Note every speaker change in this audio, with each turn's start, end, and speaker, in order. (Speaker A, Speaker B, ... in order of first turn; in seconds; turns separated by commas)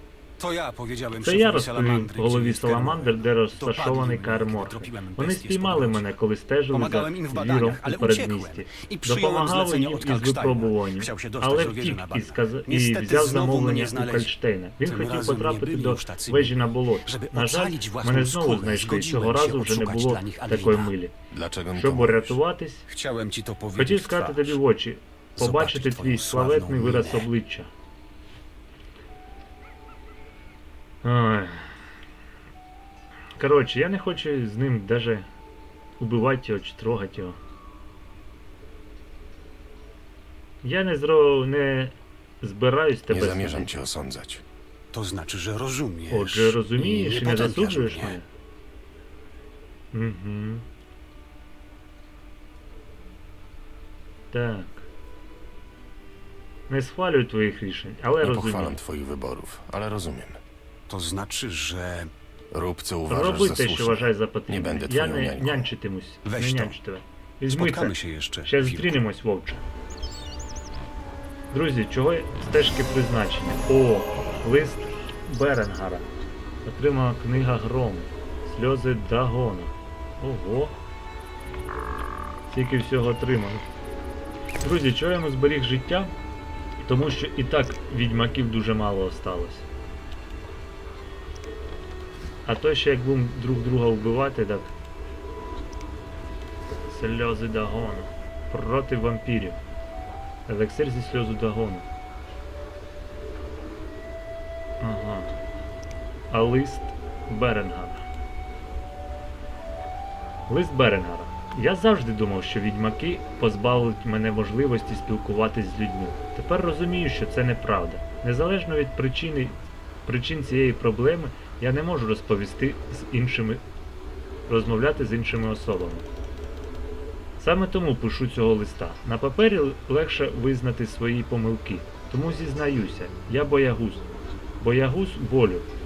Speaker A: 0.4-6.1, Speaker B: 1.2-21.1, Speaker A: 6.7-20.9, Speaker C: 21.3-22.4, Speaker B: 21.7-22.9, Speaker A: 22.9-24.6, Speaker B: 23.8-27.7, Speaker A: 25.4-27.3, Speaker B: 31.0-31.8, Speaker B: 33.4-35.3, Speaker B: 36.0-37.4, Speaker B: 40.6-43.8, Speaker C: 43.1-44.4, Speaker A: 44.9-48.2, Speaker B: 46.1-48.3, Speaker B: 49.9-50.7, Speaker B: 54.3-54.9, Speaker B: 56.7-58.8, Speaker C: 58.2-60.4, Speaker A: 60.9-62.1, Speaker C: 62.5-65.7, Speaker B: 63.1-69.6, Speaker A: 66.2-66.8, Speaker A: 67.5-69.0, Speaker B: 71.5-76.1, Speaker B: 76.6-80.8, Speaker B: 82.5-83.6, Speaker B: 84.6-86.1, Speaker B: 86.9-89.7, Speaker B: 92.5-94.7, Speaker B: 96.9-99.6, Speaker B: 100.5-101.9, Speaker B: 104.8-105.3, Speaker B: 106.3-108.0, Speaker B: 110.5-123.6, Speaker B: 124.5-126.1, Speaker B: 127.4-134.1, Speaker B: 134.6-135.7